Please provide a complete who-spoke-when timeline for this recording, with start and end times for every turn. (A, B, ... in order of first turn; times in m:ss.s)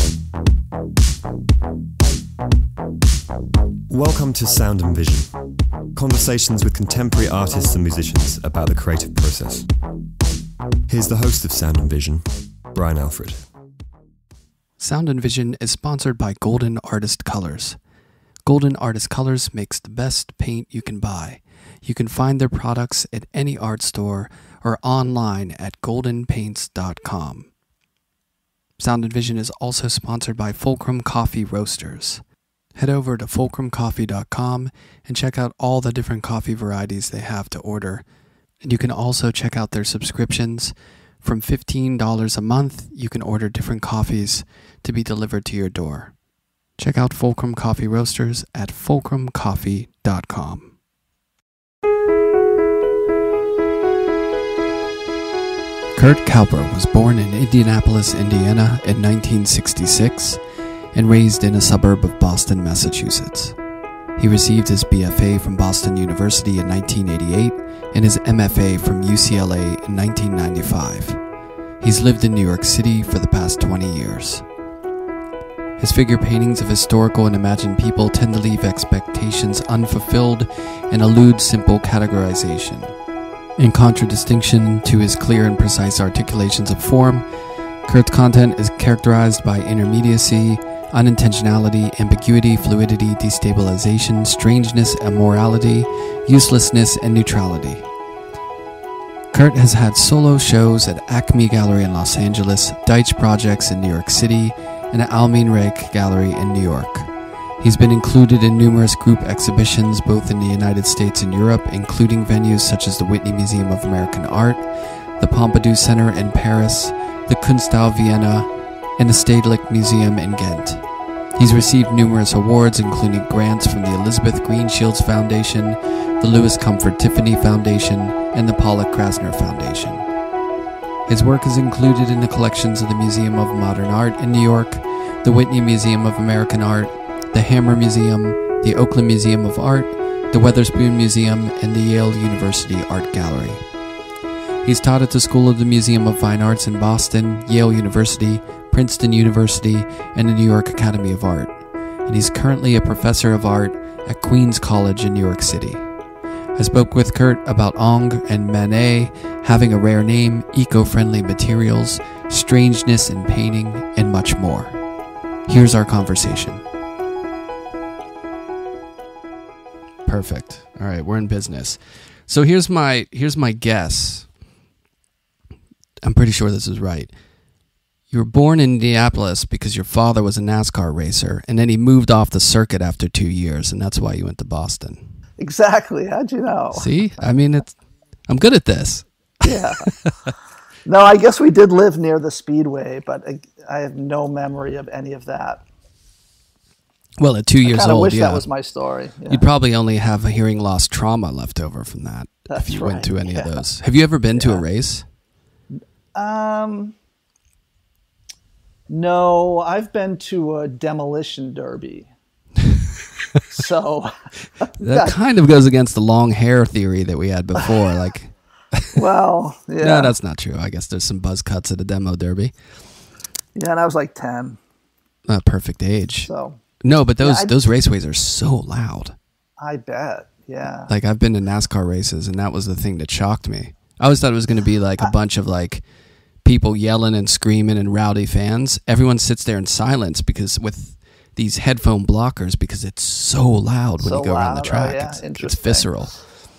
0:03.9-0:05.4 A
0:05.9-0:09.7 A
0:10.9-0:13.5 A
0:14.8-0:17.8 B
0:18.4-0:27.5 B
0:28.8-0:32.2 B
0:32.8-0:38.0 B
0:38.6-0:46.1 B
0:46.8-0:50.7 B
0:56.0-1:00.4 B
1:00.9-1:03.6 B
1:04.2-1:11.2 B
1:11.8-1:14.4 B
1:15.8-1:23.0 B
1:23.6-1:27.2 B
1:27.9-1:37.8 B
1:39.3-1:47.1 B
1:47.6-1:54.7 B
1:55.2-2:00.8 B
2:01.4-2:10.1 B
2:11.1-2:23.6 B
2:24.6-2:35.8 B
2:36.6-2:44.8 B
2:45.5-2:46.6 B
2:50.1-2:54.3 B
2:56.0-2:57.1 B
2:58.1-3:05.0 B
3:05.4-3:06.9 C
3:06.7-3:07.8 B
3:08.3-3:10.1 B
3:09.4-3:09.9 C
3:10.9-3:15.6 C
3:17.2-3:18.4 B
3:17.6-3:19.4 C
3:19.3-3:25.1 B
3:22.5-3:23.6 C
3:24.4-3:24.6 C
3:26.2-3:26.9 C
3:28.9-3:32.1 C
3:33.5-3:35.1 C
3:34.8-3:39.0 B
3:38.9-3:40.1 C
3:39.8-3:42.6 B
3:43.6-3:44.6 C
3:45.3-3:46.3 B
3:46.3-3:46.6 C
3:46.8-3:49.2 B
3:47.2-3:47.5 C
3:49.6-3:50.9 C
3:50.9-3:55.8 B
3:56.4-4:06.2 B
4:04.0-4:05.9 C